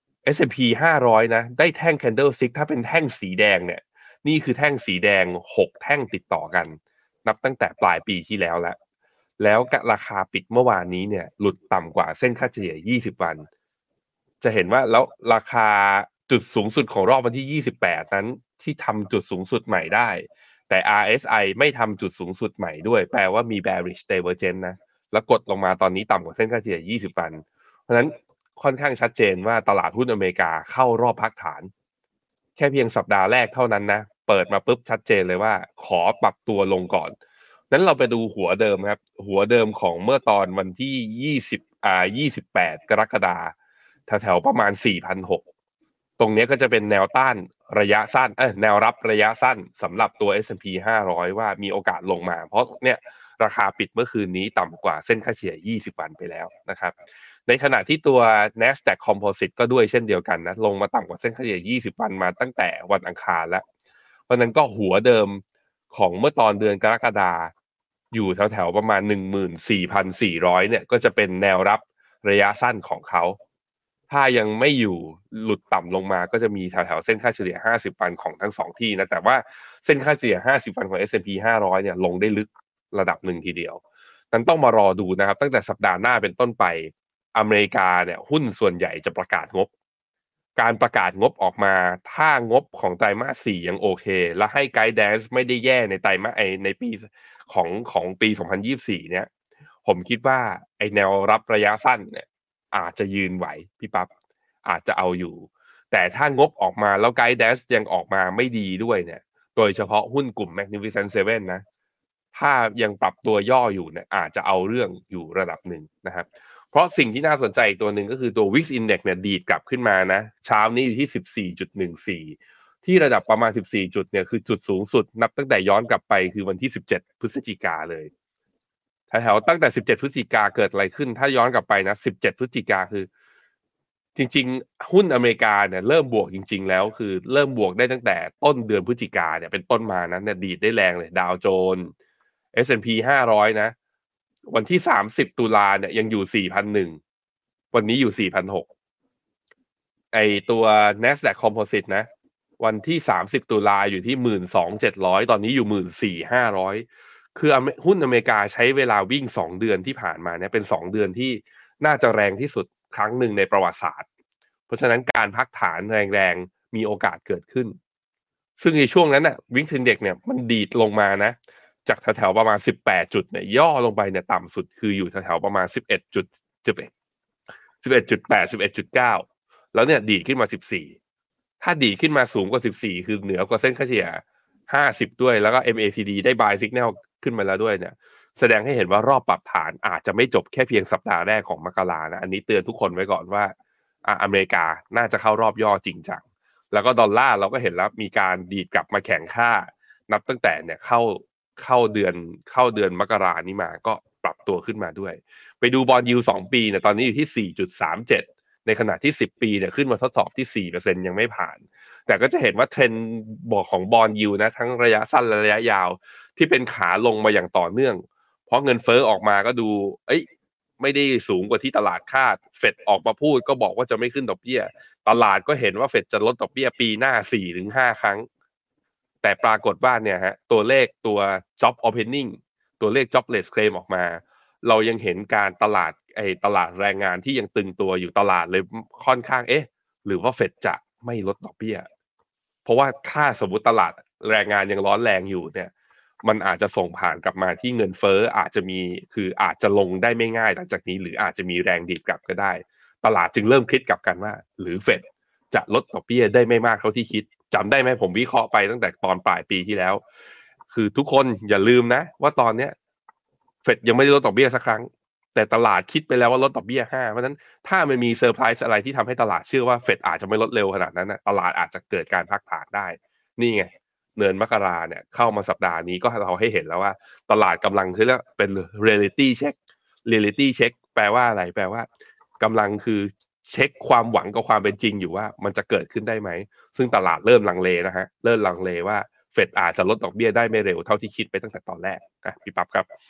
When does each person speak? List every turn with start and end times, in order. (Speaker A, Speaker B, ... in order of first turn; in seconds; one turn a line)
Speaker A: 0.2-8.8
Speaker A: 9.4-13.4
Speaker A: 14.4-31.7
Speaker A: 32.6-37.1
Speaker A: 37.7-43.5
Speaker A: 44.1-45.4
Speaker A: 46.2-57.0
Speaker A: 57.5-63.6
Speaker A: 64.3-67.5
Speaker A: 68.1-73.4
Speaker A: 74.1-83.8
Speaker A: 84.3-89.7
Speaker A: 90.6-99.3
Speaker A: 99.8-104.1
Speaker A: 104.6-111.6
Speaker A: 112.3-128.1
Speaker A: 129.1-133.1
Speaker A: 134.2-141.9
Speaker A: 142.5-143.7
Speaker A: 144.5-147.0
Speaker A: 147.7-148.7
Speaker A: 150.1-152.1
Speaker A: 152.6-164.0
Speaker A: 164.7-167.8
Speaker A: 168.6-171.3
Speaker A: 171.9-176.9
Speaker A: 177.8-180.9
Speaker A: 181.6-193.5
Speaker A: 194.1-220.2
Speaker A: 220.8-228.2
Speaker A: 229.2-241.9
Speaker A: 242.6-245.7
Speaker A: 246.2-260.0
Speaker A: 260.7-262.8
Speaker A: 263.6-281.9
Speaker A: 282.4-292.9